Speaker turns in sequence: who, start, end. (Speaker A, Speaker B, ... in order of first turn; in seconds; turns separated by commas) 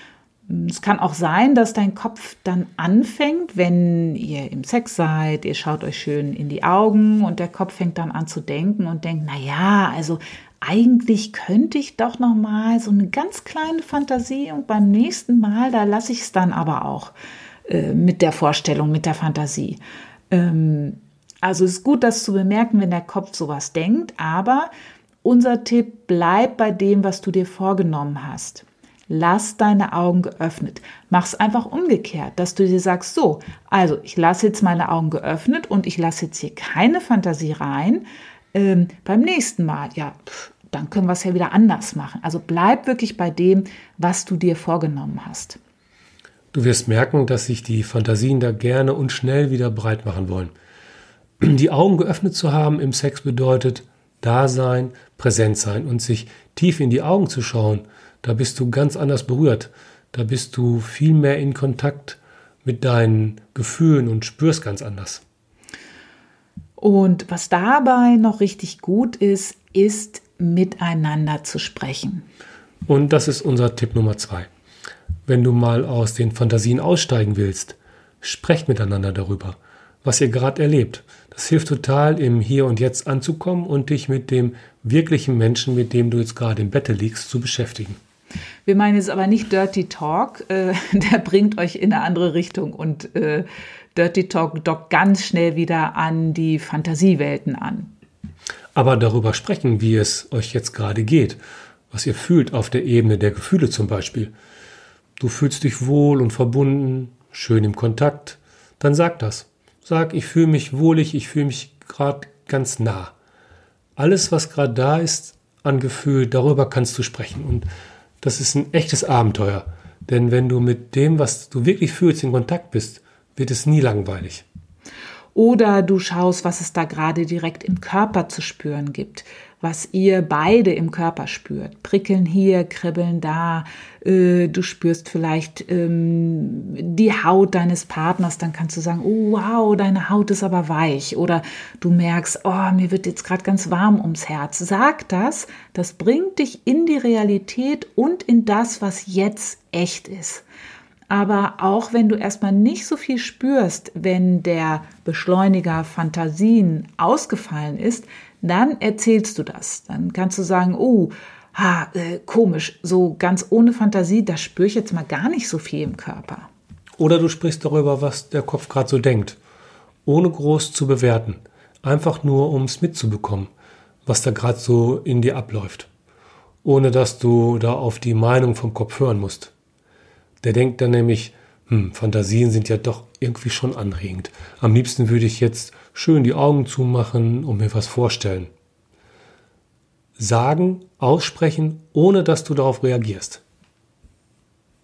Speaker A: 0.5-17.1, Speaker A: 17.7-24.7, Speaker A: 25.2-45.6, Speaker B: 46.5-50.5, Speaker B: 51.4-65.2, Speaker A: 66.8-72.3, Speaker B: 72.9-74.5, Speaker B: 75.3-88.0, Speaker A: 88.7-97.9, Speaker B: 98.7-101.4, Speaker B: 101.9-104.3, Speaker B: 105.2-113.1, Speaker B: 114.0-117.7, Speaker B: 118.2-124.4, Speaker A: 125.3-150.4, Speaker A: 151.1-166.5, Speaker B: 167.0-169.4, Speaker B: 170.1-173.5, Speaker B: 174.1-175.9, Speaker B: 176.6-179.5, Speaker B: 180.4-188.5, Speaker B: 190.2-193.4